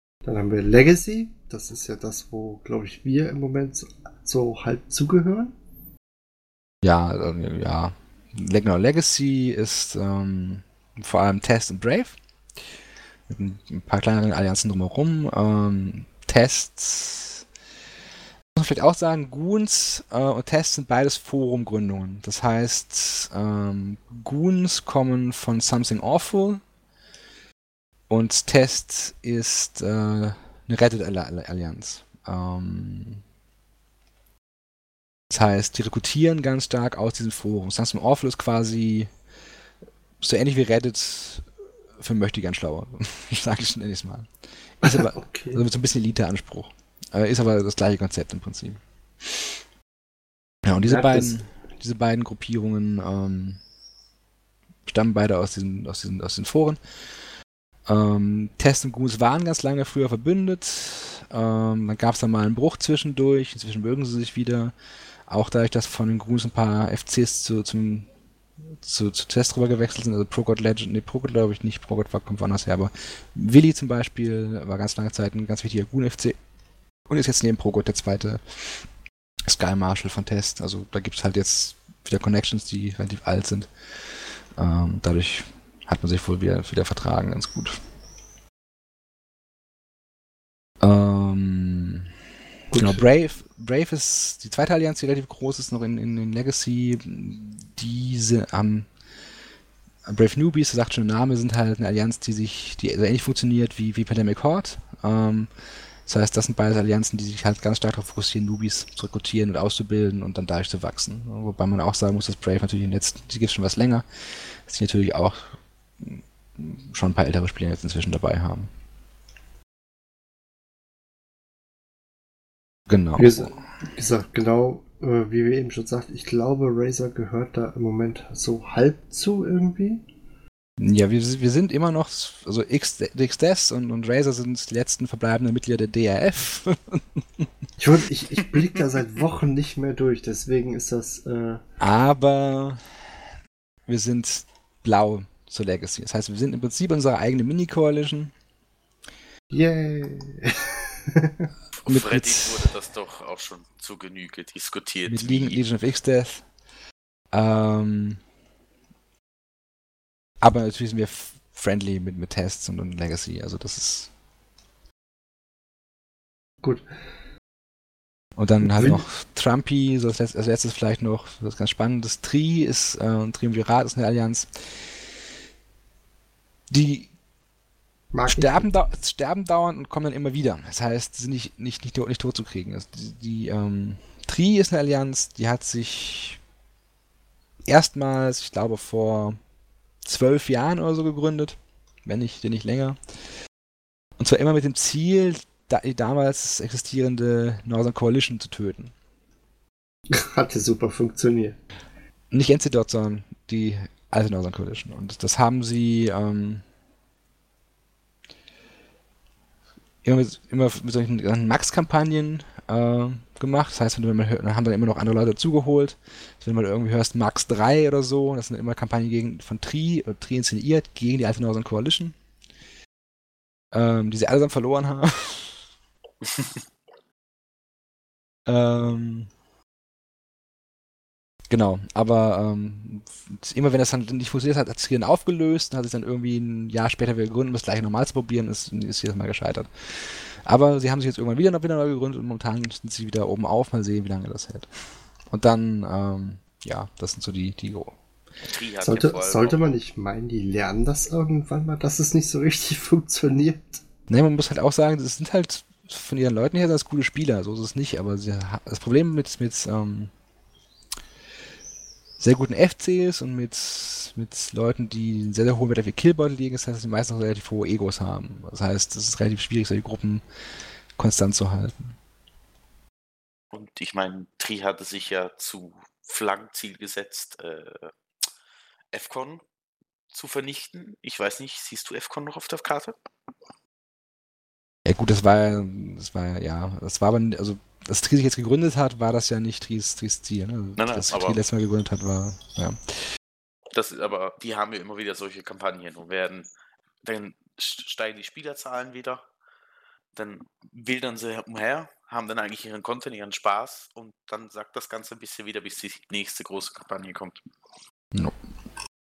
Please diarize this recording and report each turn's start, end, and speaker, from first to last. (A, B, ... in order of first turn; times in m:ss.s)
0:00.2-0:05.5 A
0:06.8-0:12.2 B
0:13.3-0:17.5 B
0:18.6-0:26.6 B
0:28.1-0:33.2 B
0:35.3-0:39.1 B
0:40.2-0:41.5 B
0:42.0-0:44.3 B
0:44.8-0:49.4 B
0:44.8-0:45.6 A
0:50.6-0:53.6 B
0:50.9-0:51.4 A
0:54.9-0:56.8 B
0:57.9-1:04.7 B
1:05.3-1:08.1 B
1:08.8-1:16.4 B
1:17.1-1:18.9 B
1:19.5-1:27.8 B
1:30.8-1:32.1 B
1:32.7-1:33.1 A
1:32.8-1:38.9 B
1:40.1-1:45.5 B
1:46.1-1:58.7 B
2:02.9-2:03.6 B
2:03.2-2:10.0 A
2:10.8-2:17.5 B
2:17.8-2:21.6 A
2:21.8-2:22.8 B
2:23.9-2:28.3 B
2:29.5-2:31.5 A
2:31.8-2:35.6 C
2:31.9-2:32.7 B
2:35.0-2:36.5 B
2:37.3-2:38.2 B
2:40.4-2:44.1 B
2:48.4-2:55.0 B
2:48.6-2:49.0 A
2:56.7-2:57.1 B
2:58.1-2:58.7 A
2:58.3-3:06.4 B
3:07.7-3:09.4 B
3:10.0-3:13.0 B
3:14.2-3:18.9 B
3:20.1-3:21.6 A
3:22.3-3:26.6 B
3:30.0-3:42.2 B
3:43.7-3:45.6 B
3:46.2-3:46.6 C
3:48.5-3:49.3 B
3:51.5-4:04.7 B
4:05.3-4:08.0 B
4:08.4-4:09.6 C
4:08.8-4:13.8 A
4:14.1-4:20.1 B
4:22.2-4:30.2 B
4:31.0-4:31.9 B
4:33.5-4:37.9 C
4:38.9-4:39.4 C
4:40.1-4:43.0 C
4:44.8-4:53.0 B
4:50.8-4:51.4 C
4:53.7-4:56.5 C
4:57.0-4:59.2 C
5:00.2-5:07.5 C